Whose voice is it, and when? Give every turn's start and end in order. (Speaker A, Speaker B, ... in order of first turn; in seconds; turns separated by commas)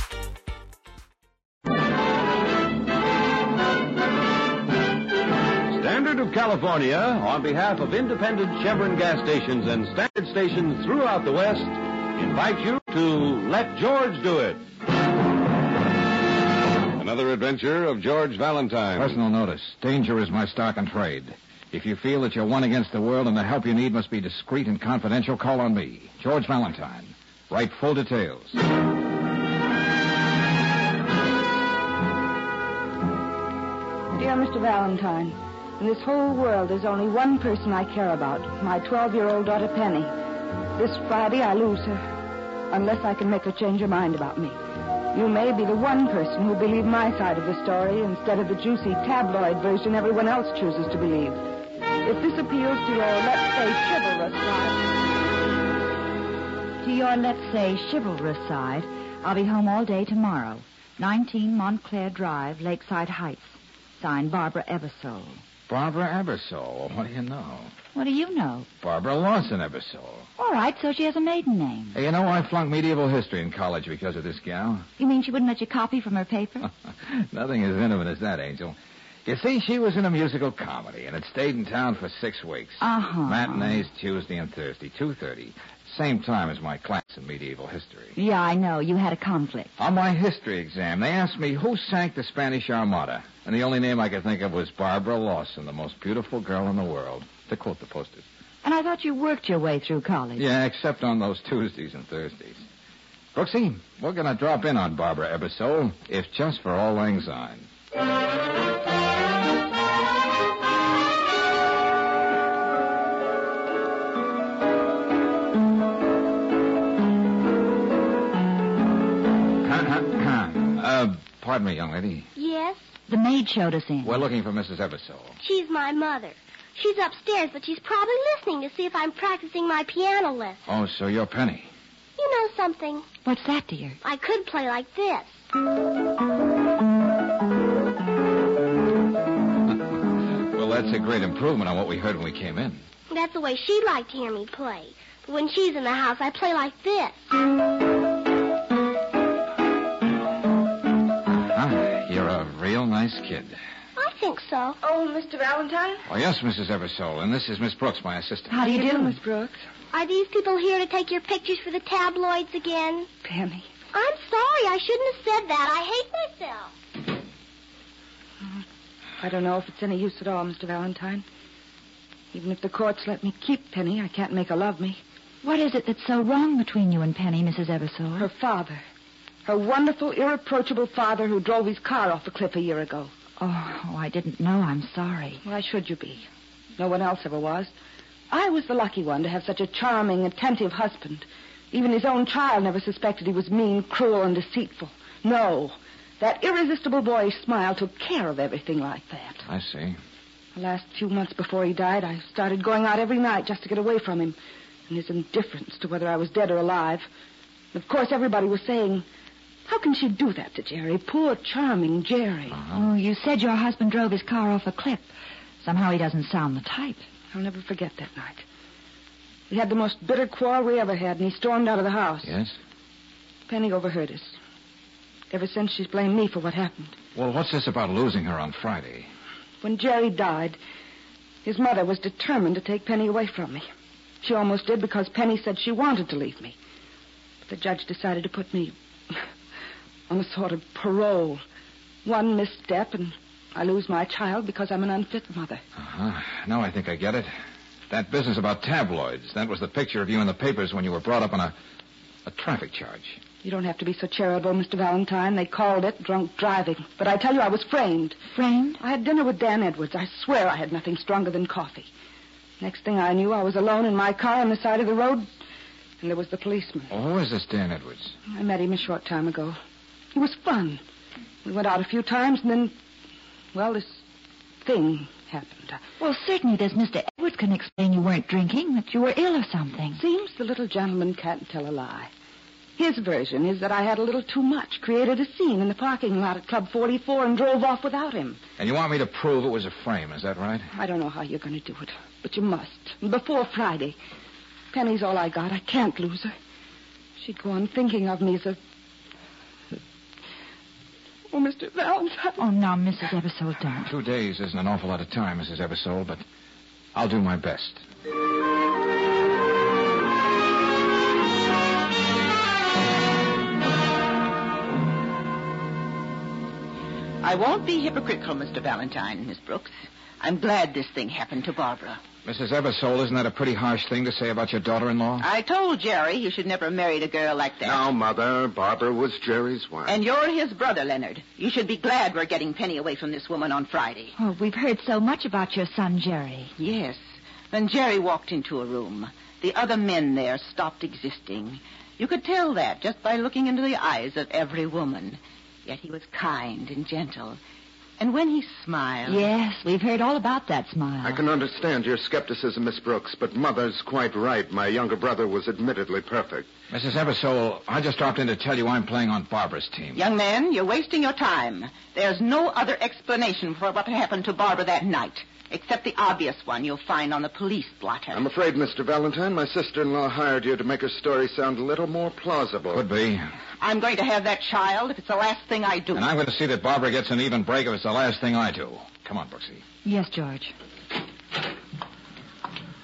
Speaker A: 5.7-14.6, Speaker A: 16.9-19.2, Speaker B: 18.9-28.6, Speaker C: 34.1-40.1, Speaker C: 40.8-42.0, Speaker C: 42.7-44.6, Speaker C: 45.1-51.4, Speaker C: 52.0-54.8, Speaker D: 56.8-65.4, Speaker B: 65.7-67.7, Speaker D: 67.9-68.7, Speaker B: 68.8-70.3, Speaker D: 70.4-72.0, Speaker B: 71.9-74.9, Speaker D: 75.0-76.7, Speaker B: 76.7-88.2, Speaker D: 82.8-83.8, Speaker D: 88.2-89.7, Speaker B: 89.8-98.2, Speaker D: 98.6-100.4, Speaker B: 100.4-102.7, Speaker B: 103.3-107.7, Speaker B: 119.6-122.3, Speaker E: 122.3-122.8, Speaker D: 123.1-124.2, Speaker B: 124.0-125.4, Speaker E: 125.4-130.6, Speaker B: 130.7-131.7, Speaker E: 132.2-133.1, Speaker D: 133.2-134.0, Speaker E: 134.0-135.4, Speaker B: 140.3-142.8, Speaker E: 143.1-147.3, Speaker B: 151.3-153.6, Speaker E: 154.0-154.8, Speaker C: 154.8-156.1, Speaker B: 156.1-158.6, Speaker D: 158.5-159.2, Speaker C: 158.6-159.6, Speaker E: 159.9-163.1, Speaker C: 163.2-163.7, Speaker E: 163.9-166.7, Speaker C: 169.2-171.2, Speaker C: 172.3-175.0, Speaker D: 175.4-178.3, Speaker C: 178.2-178.8, Speaker C: 179.4-183.1, Speaker D: 183.4-185.4, Speaker C: 185.4-187.7, Speaker C: 188.3-199.4, Speaker B: 199.4-200.0, Speaker C: 200.5-204.4, Speaker C: 204.9-207.1, Speaker C: 207.7-209.1, Speaker C: 209.7-212.6, Speaker B: 212.5-212.8, Speaker D: 212.7-215.1, Speaker D: 215.6-217.0, Speaker C: 217.3-218.4, Speaker C: 219.5-222.3, Speaker B: 222.2-222.6, Speaker C: 223.5-224.3, Speaker C: 225.3-227.0, Speaker B: 227.1-229.1, Speaker C: 229.6-230.6, Speaker C: 231.4-233.6, Speaker C: 234.2-236.6, Speaker C: 237.4-239.2, Speaker C: 240.1-241.4, Speaker C: 242.0-245.6, Speaker B: 245.8-247.3, Speaker B: 247.9-251.5, Speaker B: 252.2-253.2, Speaker C: 253.4-258.2, Speaker D: 258.3-258.8, Speaker C: 258.8-261.9, Speaker C: 262.6-265.3, Speaker C: 266.0-266.9, Speaker B: 266.9-268.1, Speaker C: 268.3-269.6, Speaker C: 270.1-270.8, Speaker C: 271.4-272.7, Speaker C: 273.5-274.0, Speaker C: 274.6-275.8, Speaker D: 276.0-280.0, Speaker C: 279.9-282.1, Speaker C: 282.8-288.4, Speaker B: 288.6-290.7, Speaker C: 290.7-293.9, Speaker C: 294.7-296.3, Speaker C: 297.2-298.6, Speaker C: 301.3-302.4, Speaker D: 302.4-303.9, Speaker B: 303.8-306.2, Speaker B: 306.9-307.8, Speaker F: 317.2-322.0, Speaker B: 322.2-325.3, Speaker F: 325.2-327.9, Speaker G: 327.6-330.0, Speaker F: 329.9-334.1, Speaker D: 334.1-336.5, Speaker F: 336.6-347.4, Speaker F: 348.0-349.2, Speaker D: 349.0-351.2, Speaker G: 351.0-356.5, Speaker B: 356.7-360.1, Speaker F: 359.9-368.3, Speaker G: 368.1-372.8, Speaker B: 372.7-373.3, Speaker F: 373.6-376.1, Speaker B: 375.9-379.6, Speaker D: 379.8-380.5